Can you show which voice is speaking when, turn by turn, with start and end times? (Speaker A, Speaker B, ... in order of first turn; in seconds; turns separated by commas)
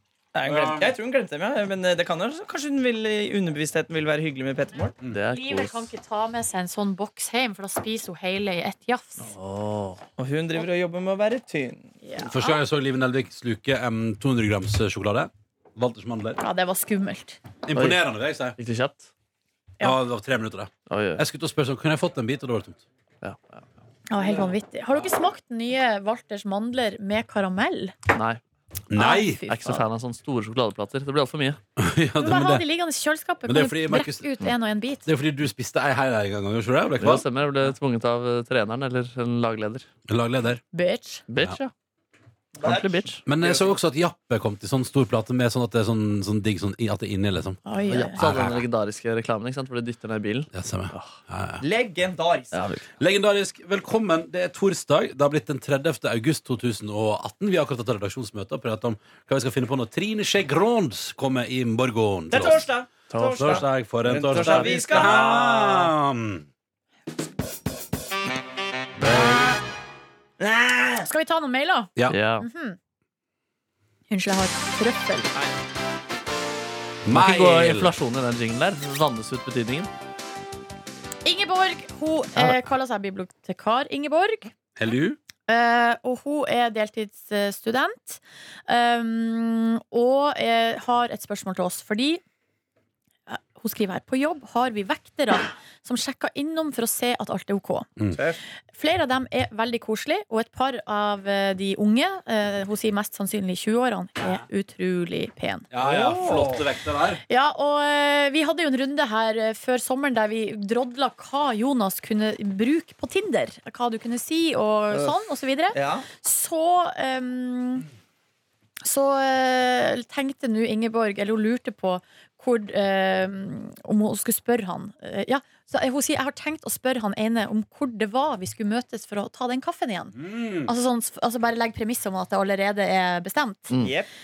Speaker A: 0.3-4.9, Speaker B: 0.5-0.9, Speaker C: 5.1-5.9, Speaker D: 5.3-9.3, Speaker C: 9.2-10.0, Speaker A: 10.2-11.9, Speaker D: 12.0-12.6, Speaker B: 12.2-16.4, Speaker D: 16.4-17.4, Speaker B: 17.6-18.6, Speaker C: 17.7-18.0, Speaker C: 18.6-19.1, Speaker B: 19.8-22.8, Speaker C: 20.9-21.2, Speaker C: 23.2-23.6, Speaker D: 24.1-27.9, Speaker C: 28.1-28.4, Speaker B: 28.9-29.4, Speaker D: 28.9-29.8, Speaker C: 29.5-31.6, Speaker B: 31.8-32.6, Speaker D: 32.2-35.1, Speaker B: 33.4-34.3, Speaker B: 35.0-37.7, Speaker C: 37.0-39.9, Speaker B: 40.1-40.6, Speaker D: 40.7-41.2, Speaker C: 41.3-41.7, Speaker A: 42.6-43.8, Speaker C: 42.6-43.2, Speaker B: 43.2-47.6, Speaker D: 47.6-48.2, Speaker C: 47.9-51.1, Speaker B: 48.2-48.6, Speaker B: 50.5-51.6, Speaker A: 51.6-52.5, Speaker C: 52.5-52.9, Speaker B: 53.0-62.6, Speaker A: 62.3-65.9, Speaker C: 63.1-63.5, Speaker B: 63.2-66.4, Speaker C: 64.4-64.8, Speaker C: 69.0-69.4, Speaker A: 70.4-71.1, Speaker D: 71.0-72.8, Speaker C: 72.1-72.5, Speaker D: 74.1-75.3, Speaker B: 77.0-77.9, Speaker C: 77.1-79.9, Speaker D: 81.2-84.5, Speaker C: 82.3-82.6, Speaker B: 84.8-85.2, Speaker D: 85.5-92.2, Speaker D: 93.3-97.9, Speaker A: 98.1-98.4, Speaker D: 98.7-105.7, Speaker B: 105.7-107.2, Speaker A: 105.8-106.6, Speaker D: 107.3-117.9, Speaker A: 114.9-115.2, Speaker A: 115.7-116.1, Speaker D: 118.8-133.7, Speaker B: 130.1-130.7, Speaker A: 133.8-134.1